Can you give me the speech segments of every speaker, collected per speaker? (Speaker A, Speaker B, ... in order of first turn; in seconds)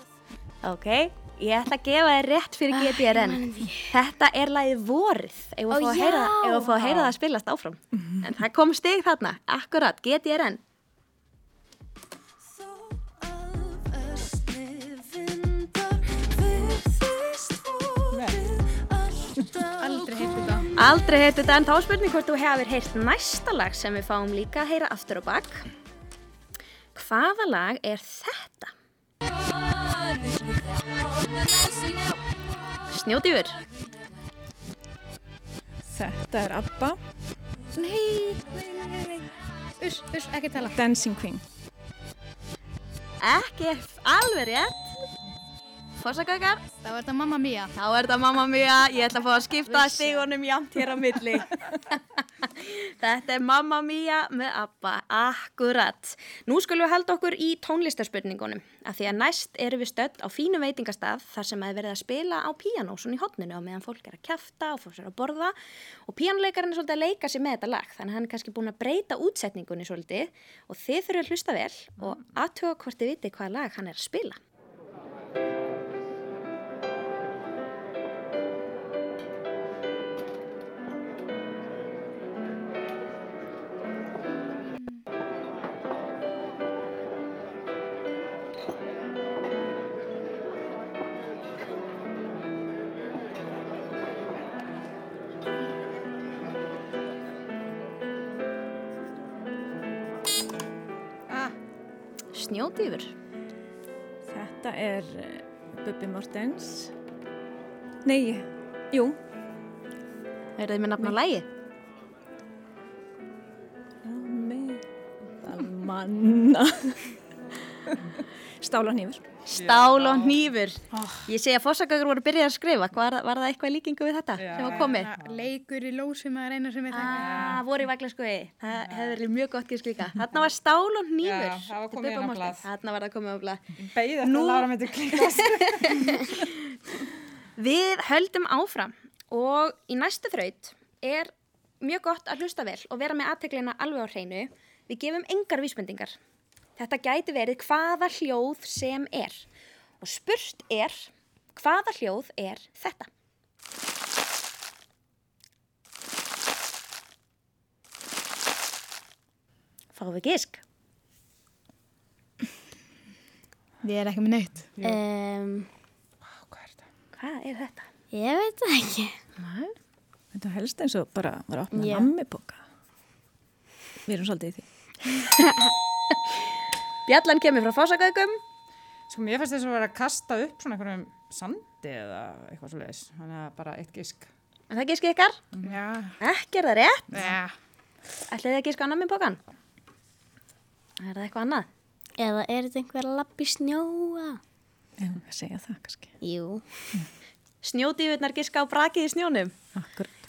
Speaker A: 0.6-10.6, 20.8-25.7, 26.9-28.7, 32.9-33.6, 37.8-39.1, 43.2-44.9, 46.0-46.6, 47.8-65.5, 66.1-74.4, 102.3-103.1, 110.6-111.5, 119.5-125.1, 126.9-133.6, 134.2-136.4, 137.6-146.2, 146.8-149.5, 150.0-153.1, 159.9-160.6, 167.1-167.9, 169.4-169.7, 177.1-178.4, 184.7-185.4, 186.2-187.2, 188.3-189.4, 191.0-191.7, 197.6-199.5
Speaker B: 2.7-3.8, 5.7-6.9, 164.8-165.7, 168.1-169.1, 171.7-172.1, 192.2-194.4, 196.2-196.6
Speaker C: 18.1-18.5, 101.3-101.5, 119.5-120.4, 124.4-125.5, 127.1-127.6, 131.2-132.7, 133.8-136.0, 164.8-165.0, 166.3-166.8, 179.1-184.3
Speaker D: 19.8-20.7, 39.8-40.8, 46.8-47.7, 120.9-121.2, 124.6-127.5, 163.8-164.7, 185.6-186.2, 187.1-187.5
Speaker E: 35.9-37.0, 40.7-41.4, 104.3-106.9, 108.0-109.2, 114.0-114.8, 115.4-117.2, 118.6-119.2, 170.3-172.6, 174.1-175.1, 195.0-196.1, 199.8-200.1